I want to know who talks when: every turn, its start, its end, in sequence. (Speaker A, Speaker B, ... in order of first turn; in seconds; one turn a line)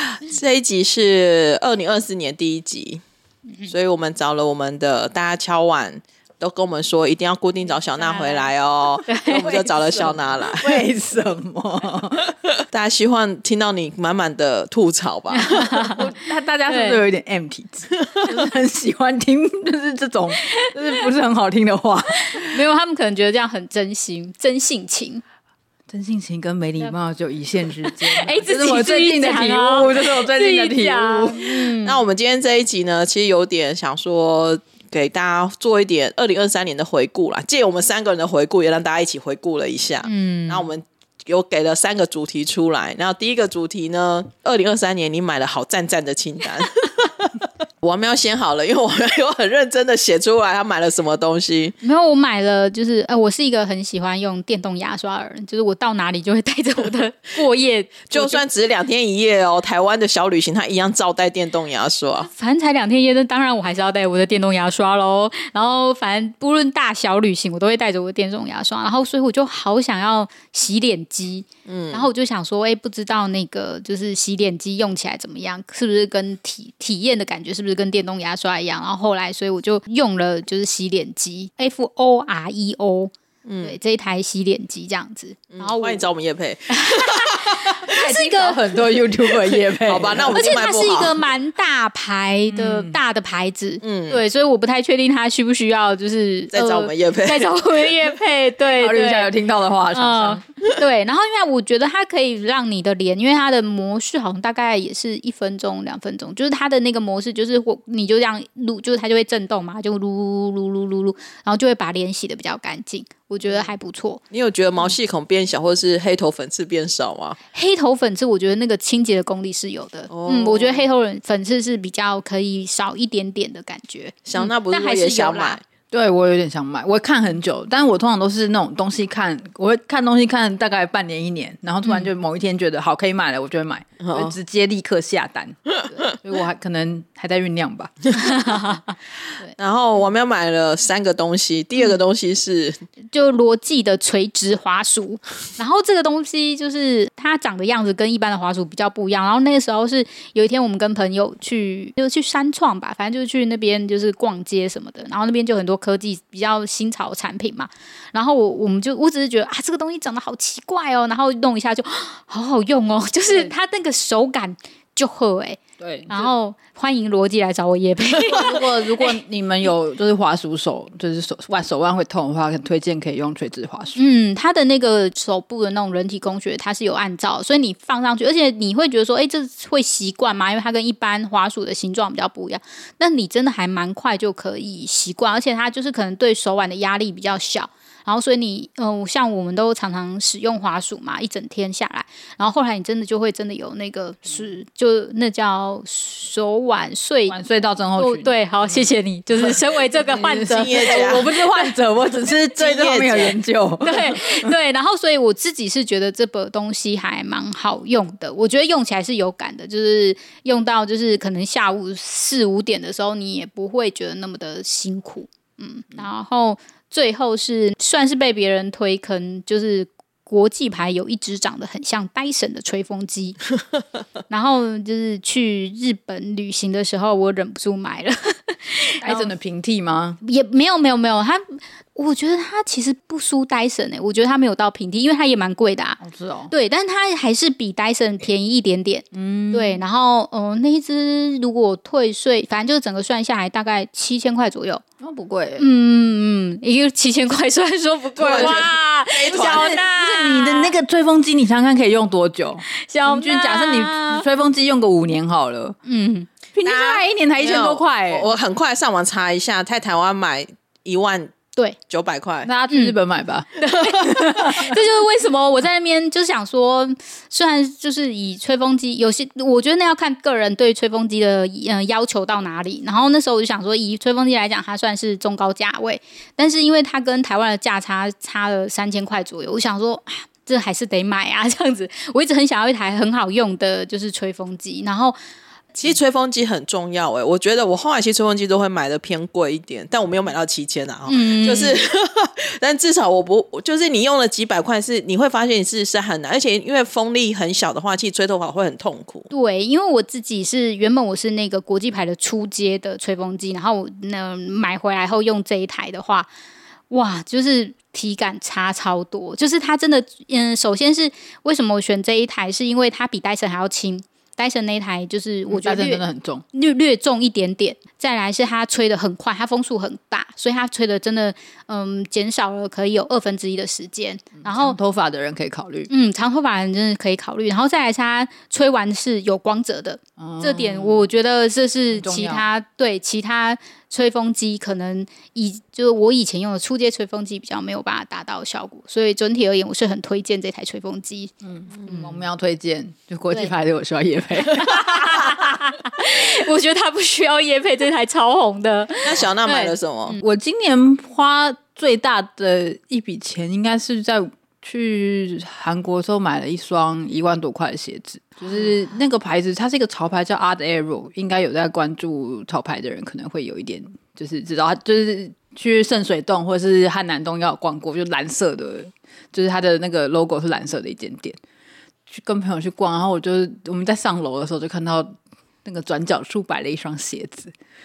Speaker A: 0.2-3.0
Speaker A: 3.7-10.8
Speaker B: 8.0-8.5
Speaker B: 9.1-9.6
Speaker C: 9.3-12.4
Speaker A: 12.7-15.9
Speaker B: 15.3-16.0
Speaker C: 15.9-22.6
Speaker B: 16.7-17.0
Speaker B: 22.2-25.2
Speaker C: 25.9-31.5
Speaker B: 27.8-32.0
Speaker A: 31.8-51.8
Speaker B: 40.0-40.7
Speaker B: 51.8-58.4
Speaker A: 58.1-62.3
Speaker B: 62.3-83.1
Speaker A: 71.7-72.1
Speaker A: 83.4-83.8
Speaker B: 83.6-86.0
Speaker A: 85.5-87.8
Speaker B: 86.7-88.6
Speaker C: 87.9-90.6
Speaker A: 89.3-91.2
Speaker B: 90.3-99.3
Speaker C: 92.5-93.0
Speaker A: 93.8-94.2
Speaker A: 96.5-98.0
Speaker C: 98.8-100.4
Speaker B: 99.9-114.2
Speaker A: 114.3-117.4
Speaker B: 117.5-125.6
Speaker A: 120.1-120.9
Speaker A: 124.3-125.6
Speaker C: 125.9-138.4
Speaker A: 134.0-134.3
Speaker A: 135.8-136.2
Speaker B: 138.2-138.8
Speaker A: 139.6-142.8
Speaker B: 143.1-169.2
Speaker C: 163.3-163.5
Speaker C: 165.8-166.3
Speaker C: 168.2-174.0
Speaker B: 173.9-197.4
Speaker C: 197.3-198.8
Speaker B: 198.0-201.6
Speaker C: 199.4-204.5
Speaker A: 200.4-201.3
Speaker A: 202.6-203.4
Speaker B: 203.8-223.4
Speaker B: 224.3-229.3
Speaker C: 229.0-230.2
Speaker B: 230.2-236.0
Speaker C: 236.0-236.5
Speaker B: 236.5-244.8
Speaker C: 239.1-239.8
Speaker C: 245.0-245.7
Speaker B: 245.6-250.7
Speaker A: 248.2-249.8
Speaker C: 248.2-248.7
Speaker C: 249.3-255.8
Speaker B: 252.7-254.3
Speaker B: 255.8-256.3
Speaker C: 256.5-258.3
Speaker A: 256.6-261.3
Speaker A: 261.9-262.5
Speaker C: 262.4-264.8
Speaker B: 262.7-262.9
Speaker B: 263.6-285.2
Speaker A: 285.8-299.3
Speaker B: 291.1-291.8
Speaker B: 299.3-306.3
Speaker B: 306.9-324.8
Speaker C: 315.5-316.4
Speaker C: 324.4-325.9
Speaker B: 325.9-341.3
Speaker C: 330.2-331.1
Speaker C: 331.9-332.5
Speaker C: 341.4-345.1
Speaker A: 341.8-342.0
Speaker B: 341.9-342.1
Speaker B: 344.5-350.2
Speaker A: 349.0-350.2
Speaker C: 350.2-371.4
Speaker C: 372.1-375.1
Speaker C: 375.6-377.5